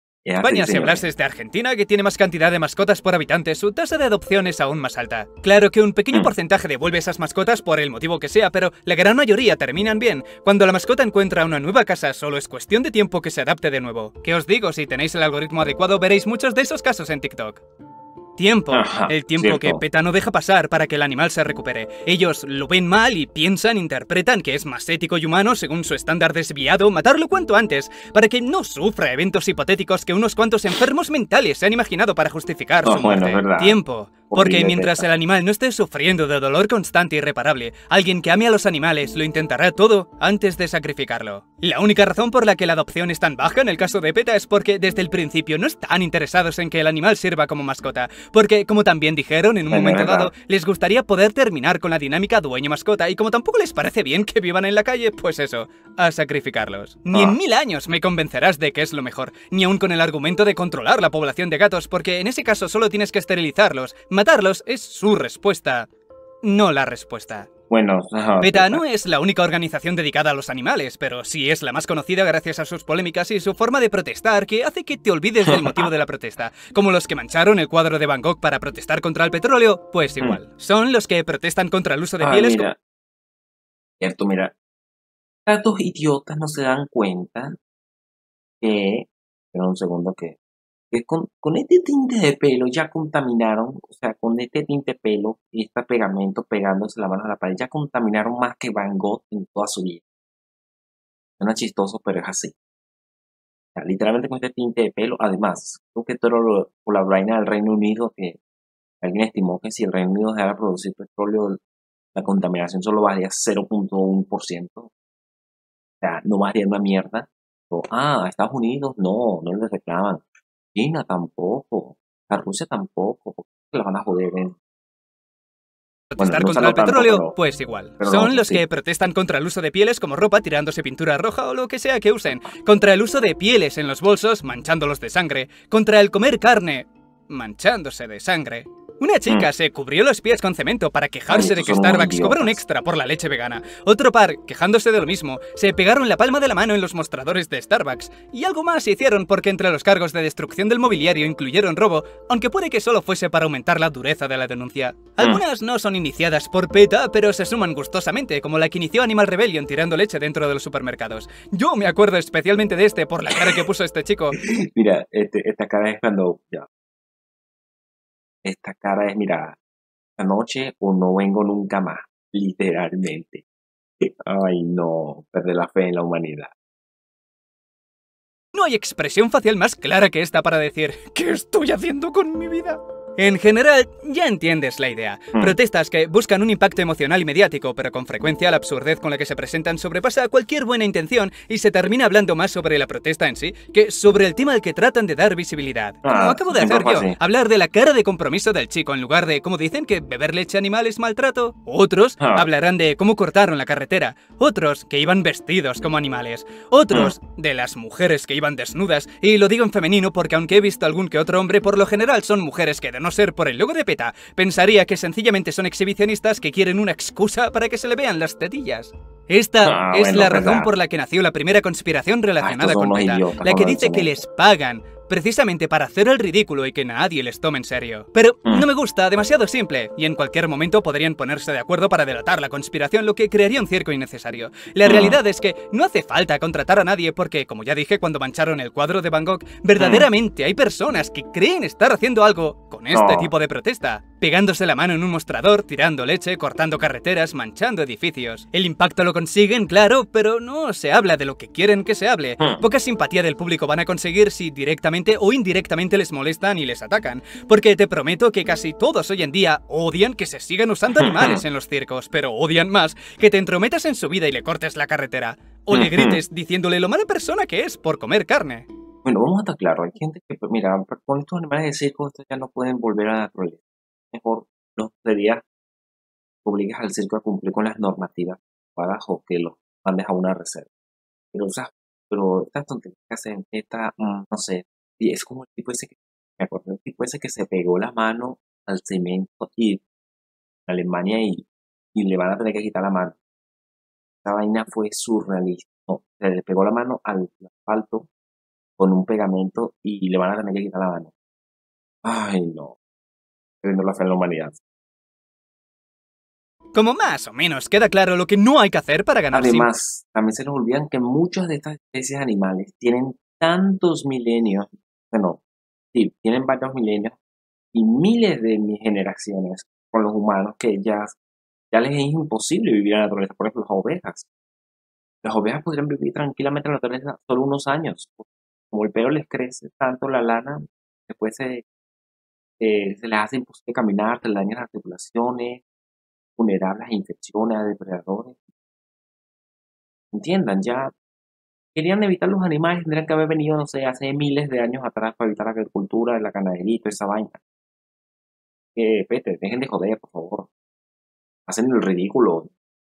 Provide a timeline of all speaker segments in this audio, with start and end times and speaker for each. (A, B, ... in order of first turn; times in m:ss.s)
0:00.2-0:01.0 A
0:00.4-0:17.6 B
0:18.4-1:05.9 B
0:18.7-0:19.8 A
0:32.8-0:33.8 A
0:34.3-0:35.0 A
0:49.7-0:50.3 A
1:06.4-1:07.5 B
1:07.7-1:08.8 A
1:08.4-1:22.7 B
1:15.4-1:15.9 A
1:22.2-1:22.8 A
1:24.0-1:24.5 A
1:25.4-1:27.6 A
1:28.6-1:30.4 A
1:30.9-1:40.0 A
1:41.4-1:42.6 A
1:43.7-1:48.4 A
1:49.0-1:51.6 A
1:52.1-1:54.9 A
1:56.0-2:04.6 A
2:06.1-2:44.4 B
2:06.2-2:07.4 A
2:08.0-2:08.6 A
2:21.3-2:22.6 A
2:43.4-2:43.6 A
2:44.3-2:46.7 A
2:48.4-2:49.6 A
2:50.2-2:53.4 A
2:54.0-2:56.5 A
2:58.5-4:28.7 B
3:16.0-3:17.2 A
3:22.2-3:22.5 A
3:39.6-3:40.7 A
3:42.4-3:44.2 A
3:54.8-3:55.2 A
3:59.8-4:00.1 A
4:02.9-4:03.3 A
4:20.9-4:21.4 A
4:25.7-4:26.2 A
4:29.0-4:35.4 A
4:36.4-4:40.7 A
4:41.3-4:49.8 A
4:50.7-4:53.2 A
4:54.2-4:58.1 A
4:58.8-5:01.1 A
5:02.0-5:02.8 A
5:03.6-5:04.6 A
5:06.7-5:09.7 B
5:09.3-5:15.4 A
5:15.9-5:17.2 A
5:17.7-5:21.2 A
5:21.7-5:24.3 A
5:25.2-5:31.6 A
5:32.6-5:35.6 A
5:36.4-5:38.4 A
5:40.1-5:40.9 A
5:41.7-5:47.4 A
5:48.7-5:50.5 A
5:51.5-5:52.5 A